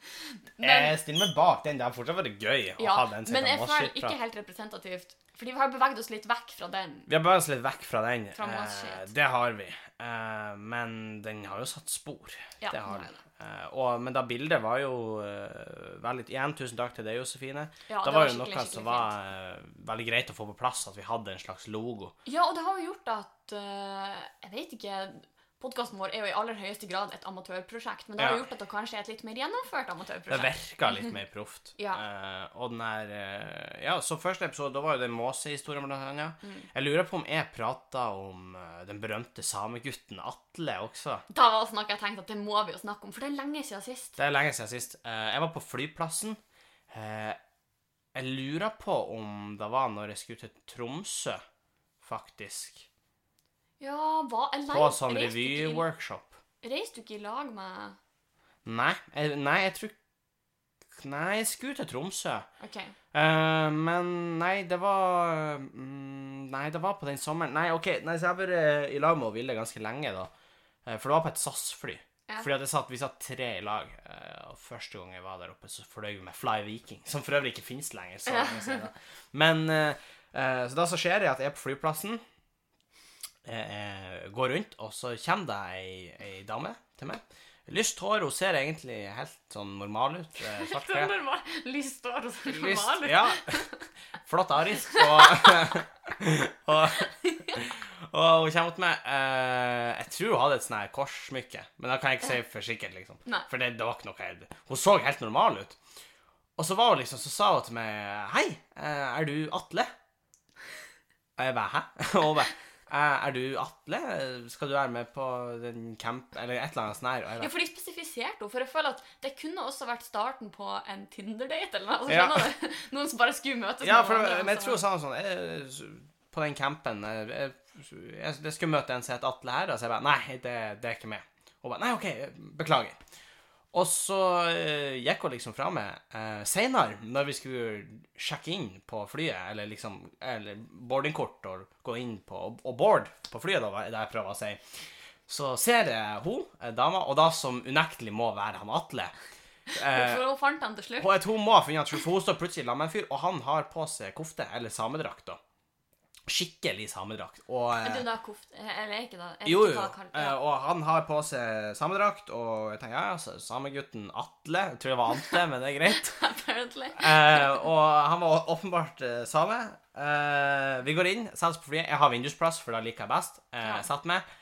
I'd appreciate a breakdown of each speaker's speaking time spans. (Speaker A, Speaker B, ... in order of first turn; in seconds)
Speaker A: 0.6-0.9, 2.8-7.1, 8.3-9.1, 12.6-13.2, 17.9-19.1, 22.2-31.1, 41.3-44.2, 53.8-55.8, 56.6-58.0, 62.6-62.9, 78.2-78.8, 90.4-93.7, 95.0-95.7, 97.0-97.6, 117.4-124.8, 149.8-151.1, 157.8-160.4, 165.9-167.5
Speaker B: 0.6-4.2, 7.1-22.1, 28.2-28.4, 30.3-41.2, 44.2-46.4, 46.9-47.4, 48.1-51.4, 52.0-52.9, 54.7-56.3, 58.6-60.0, 61.0-62.5, 63.1-70.3, 70.8-82.2, 83.4-91.1, 92.5-93.6, 94.2-105.8, 106.6-109.9, 111.4-117.5, 122.1-122.5, 123.8-133.0, 133.7-144.6, 145.3-149.1, 149.7-150.2, 151.0-155.4, 156.3-158.0, 159.4-166.2, 166.9-174.2